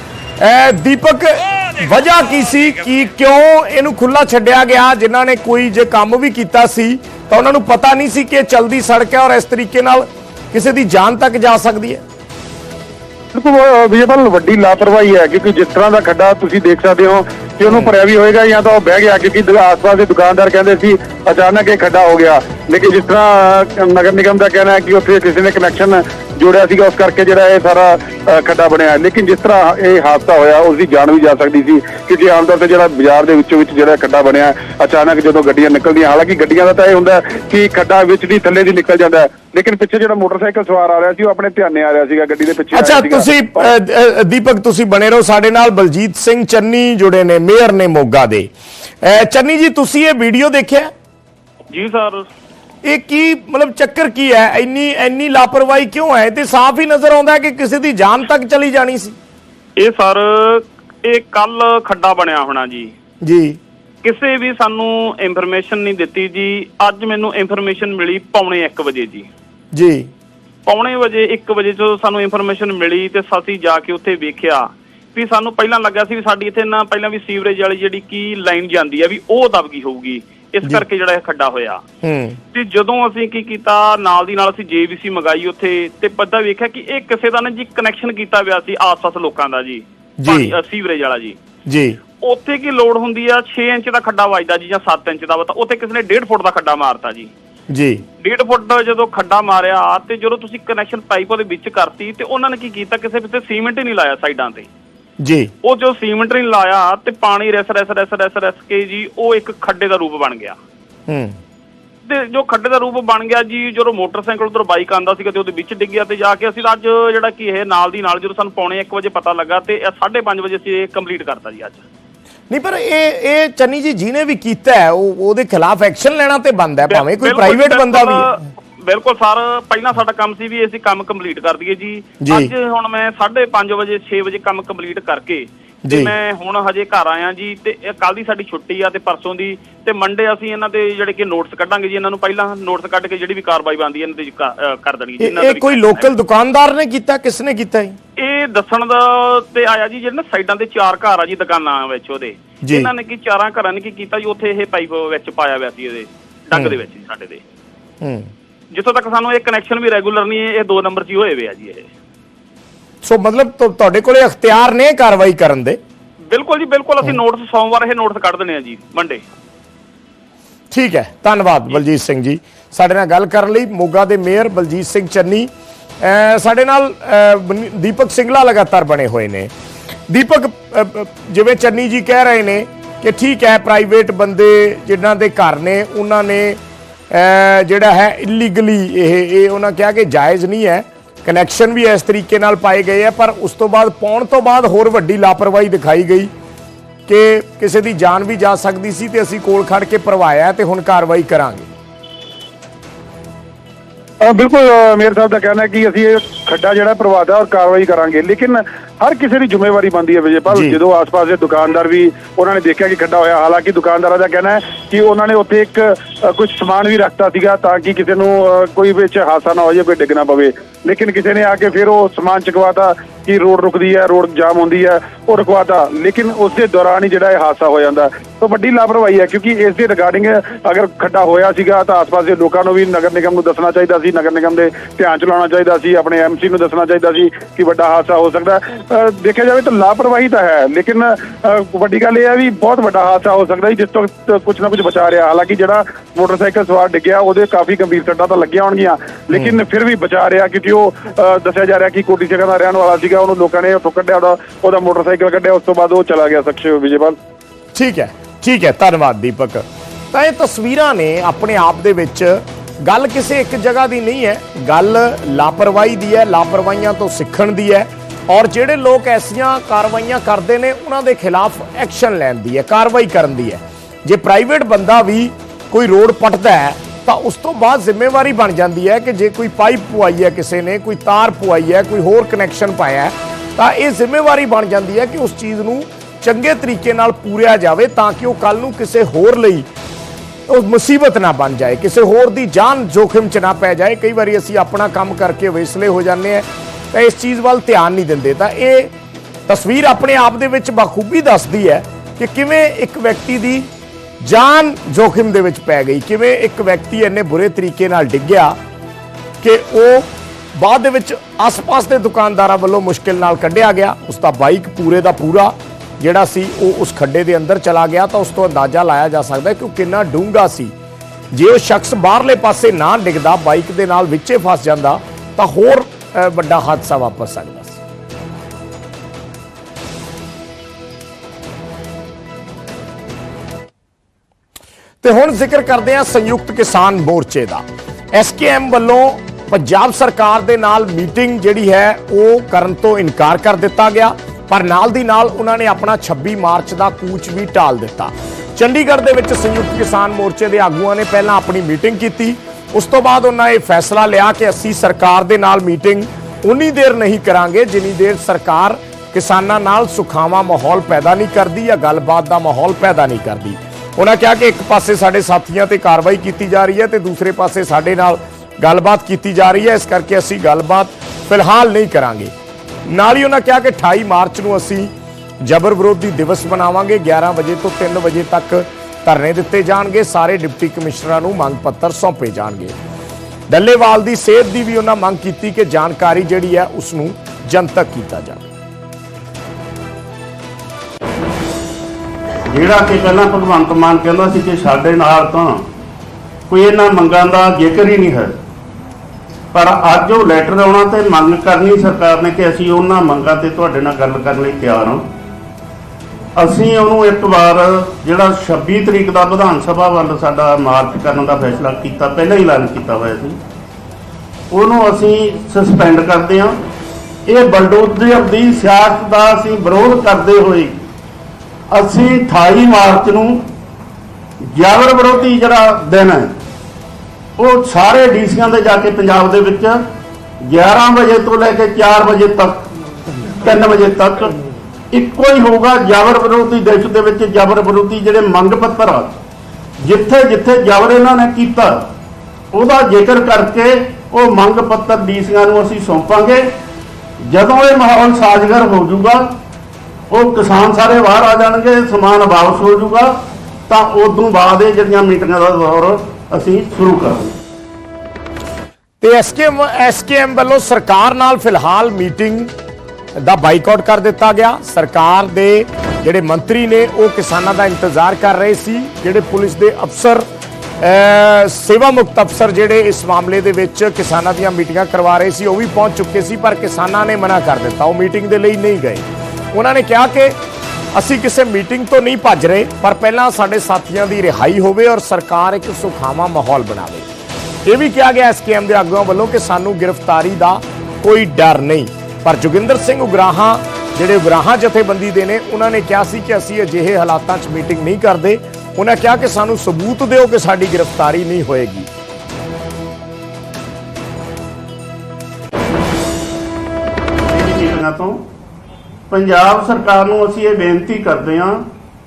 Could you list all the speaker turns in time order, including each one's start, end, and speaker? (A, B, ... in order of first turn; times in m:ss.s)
0:00.4-0:12.0 A
0:13.3-0:43.7 B
0:17.7-0:17.9 A
0:42.7-0:50.9 A
0:51.7-0:52.3 C
0:52.8-0:59.2 A
0:59.8-1:02.9 C
1:03.2-1:03.6 A
1:04.0-1:09.3 C
1:09.7-1:10.1 A
1:10.7-1:21.8 C
1:22.0-1:22.4 A
1:22.5-1:31.4 C
1:30.2-1:30.5 A
1:31.7-1:32.0 A
1:32.2-1:37.3 C
1:37.7-1:38.0 A
1:38.2-1:44.7 C
1:45.2-1:45.5 A
1:45.6-1:50.6 C
1:51.1-1:51.4 A
1:52.0-2:01.8 C
2:02.5-2:08.4 A
2:06.9-2:26.1 C
2:12.2-2:12.5 A
2:15.8-2:16.1 A
2:25.2-2:28.0 A
2:28.2-2:37.4 C
2:32.6-2:32.9 A
2:38.0-2:38.3 A
2:38.7-2:41.9 C
2:43.0-2:45.8 A
2:46.3-2:49.2 C
2:50.7-2:59.5 A
3:00.1-3:16.3 A
3:17.1-3:21.7 A
3:24.2-4:17.2 B
3:30.5-3:30.8 A
4:17.7-4:49.7 A
4:50.5-4:58.9 A
4:59.5-5:03.7 A
5:04.2-5:08.6 A
5:09.4-5:20.7 A
5:21.3-5:27.8 A
5:35.0-6:12.3 A
6:12.9-6:14.9 A
6:15.4-6:22.8 A
6:23.5-6:28.5 A
6:32.5-6:35.6 D
6:36.5-6:38.3 D
6:39.5-6:45.1 D
6:46.4-6:53.4 D
6:54.5-6:56.6 D
6:57.2-7:00.8 D
7:01.7-7:03.5 D
7:04.5-7:06.4 D
7:07.4-7:09.9 D
7:10.4-7:12.7 D
7:13.4-7:14.4 D
7:14.9-7:19.2 D
7:19.8-7:21.9 D
7:22.5-7:26.5 D
7:27.2-7:29.4 D
7:30.1-7:33.2 D
7:33.7-7:37.4 D
7:39.0-7:42.5 A
7:43.2-7:50.3 A
7:50.8-8:00.4 A
8:00.9-8:07.1 A
8:07.6-8:21.9 A
8:27.2-8:28.2 D
8:29.1-8:31.7 D